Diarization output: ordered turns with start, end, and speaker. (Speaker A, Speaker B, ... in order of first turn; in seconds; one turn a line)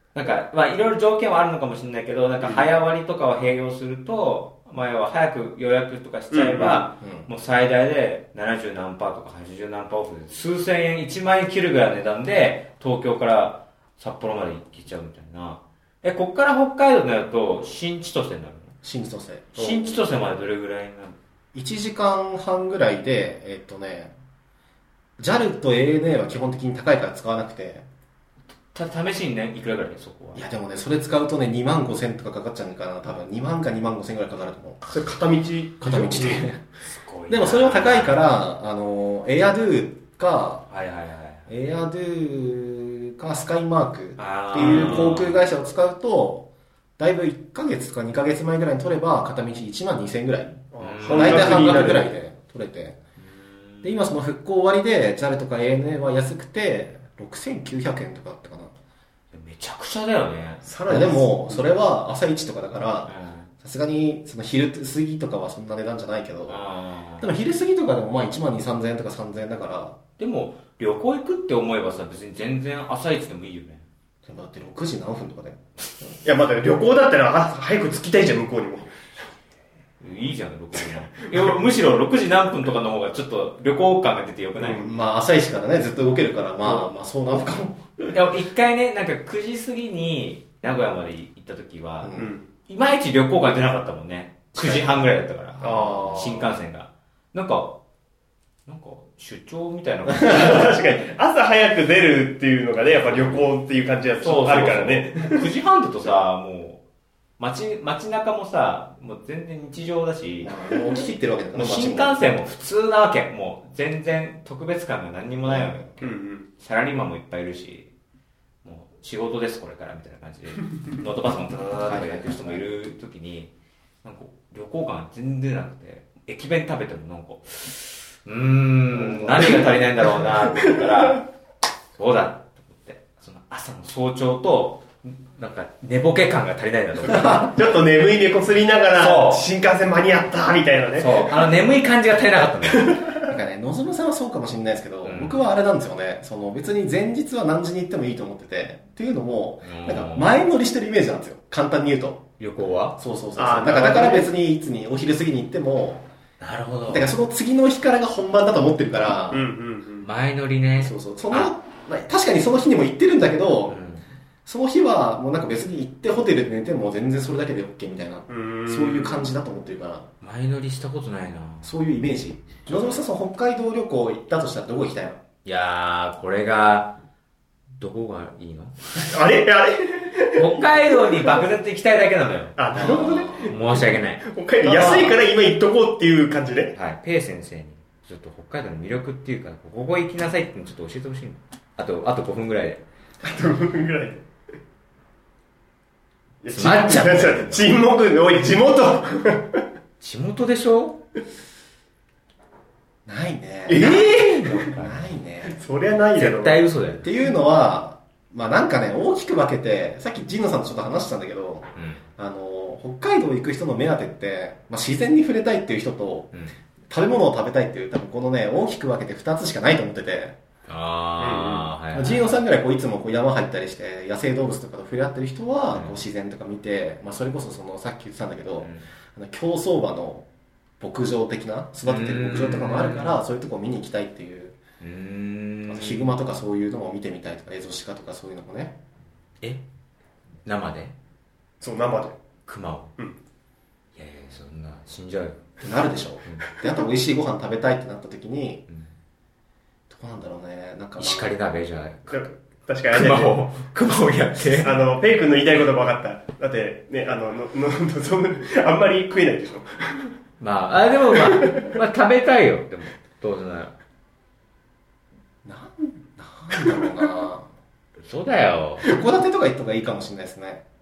Speaker A: 0.1-18.7
Speaker B: 6.3-6.9
Speaker C: 7.0-7.3
Speaker C: 18.8-19.8
Speaker A: 19.5-21.2
Speaker C: 21.5-24.1
Speaker C: 25.2-27.9
Speaker A: 28.7-30.4
Speaker C: 30.3-35.0
Speaker B: 34.9-36.5
Speaker C: 35.8-36.6
Speaker A: 36.8-38.2
Speaker C: 37.3-40.7
Speaker A: 40.7-41.5
Speaker C: 41.5-53.0
Speaker A: 44.2-45.4
Speaker B: 44.5-45.1
Speaker B: 50.7-52.1
Speaker A: 50.8-51.6
Speaker A: 53.2-54.0
Speaker C: 53.8-58.7
Speaker A: 59.3-60.6
Speaker B: 60.6-61.7
Speaker C: 60.9-66.6
Speaker A: 63.0-63.5
Speaker A: 66.5-67.3
Speaker C: 67.2-70.0
Speaker A: 70.2-73.8
Speaker C: 74.2-76.1
Speaker B: 76.2-79.0
Speaker A: 80.0-84.8
Speaker B: 80.8-81.6
Speaker C: 84.6-88.2
Speaker A: 88.1-97.8
Speaker C: 92.0-92.3
Speaker B: 92.2-92.4
Speaker B: 94.6-94.8
Speaker C: 95.6-96.6
Speaker B: 95.6-95.9
Speaker A: 98.7-100.7
Speaker B: 100.2-105.4
Speaker A: 103.0-103.5
Speaker A: 104.2-106.8
Speaker A: 107.4-110.5
Speaker C: 110.4-112.2
Speaker A: 111.5-117.9
Speaker C: 115.5-115.9
Speaker B: 116.0-116.5
Speaker A: 118.6-123.5
Speaker C: 121.8-122.6
Speaker A: 124.0-131.2
Speaker C: 128.9-129.7
Speaker B: 129.4-131.1
Speaker A: 132.0-137.6
Speaker B: 137.3-141.3
Speaker A: 138.9-139.4
Speaker A: 141.0-143.0
Speaker B: 142.7-143.3
Speaker C: 143.2-152.2
Speaker A: 145.0-145.4
Speaker A: 149.6-150.3
Speaker A: 152.4-153.0
Speaker C: 153.0-156.1
Speaker B: 153.4-154.3
Speaker A: 156.4-157.1
Speaker C: 156.9-159.4
Speaker B: 159.3-160.1
Speaker A: 160.0-161.5
Speaker C: 160.8-163.8
Speaker A: 163.7-164.0
Speaker C: 164.4-170.1
Speaker B: 168.3-169.2
Speaker A: 170.2-171.7
Speaker C: 171.6-175.2
Speaker A: 175.4-176.9
Speaker A: 177.8-179.1
Speaker B: 179.0-181.4
Speaker A: 180.3-185.1
Speaker B: 182.6-186.7
Speaker C: 182.8-183.4
Speaker A: 186.7-192.8
Speaker B: 193.2-194.2
Speaker B: 196.4-199.6
Speaker A: 196.5-197.7
Speaker A: 200.0-201.0
Speaker C: 203.1-205.6
Speaker B: 203.7-204.6
Speaker A: 203.7-205.1
Speaker B: 205.4-206.6
Speaker A: 206.2-207.1
Speaker C: 207.0-211.7
Speaker A: 211.8-212.0
Speaker C: 212.2-216.3
Speaker C: 216.9-220.3
Speaker A: 220.7-222.3
Speaker B: 221.2-221.7
Speaker C: 221.9-230.2
Speaker A: 225.7-226.0
Speaker A: 228.6-228.9
Speaker C: 230.8-234.6
Speaker A: 231.8-233.2
Speaker A: 234.8-236.2
Speaker C: 235.7-238.8
Speaker A: 240.4-240.9
Speaker B: 241.6-242.2
Speaker A: 242.5-242.9
Speaker A: 243.9-245.4
Speaker C: 245.6-248.6
Speaker C: 249.9-251.3
Speaker A: 251.0-252.2
Speaker B: 252.1-253.3
Speaker A: 252.9-254.8
Speaker B: 254.4-260.1
Speaker A: 260.4-263.7
Speaker B: 261.1-261.6
Speaker C: 265.4-267.5
Speaker A: 268.0-268.9
Speaker C: 268.8-270.6